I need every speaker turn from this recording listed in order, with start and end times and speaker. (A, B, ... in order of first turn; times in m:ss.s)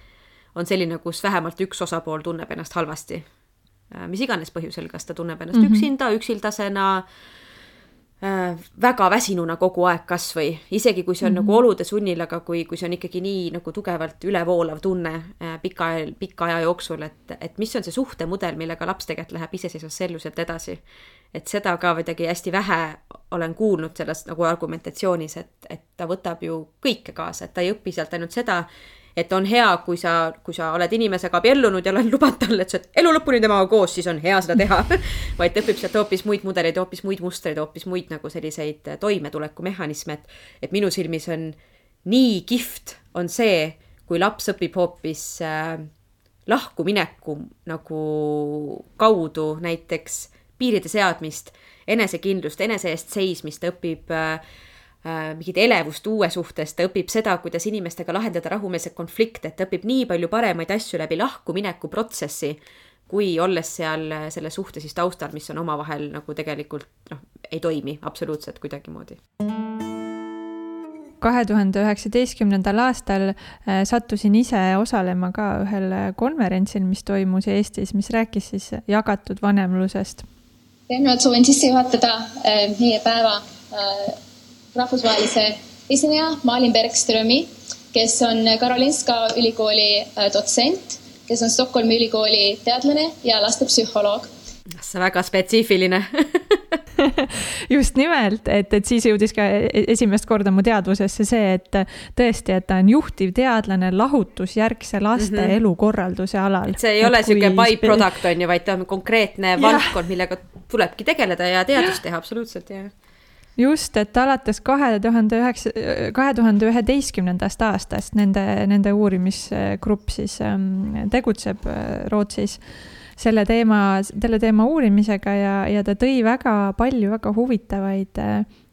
0:00.5-0:03.3 A
0:03.9-0:07.1 A
0:05.5-0:05.8 B
0:08.2-0:45.9 A
0:11.2-0:11.6 B
0:46.4-0:54.4 A
0:55.0-1:09.2 A
1:11.2-1:20.2 B
1:20.9-1:24.2 C
1:24.7-1:34.2 C
1:34.7-1:36.8 A
1:37.0-1:48.1 B
1:45.2-1:45.6 A
1:46.7-1:52.9 A
1:49.6-1:49.9 B
1:53.6-2:02.6 B
2:03.2-2:08.5 B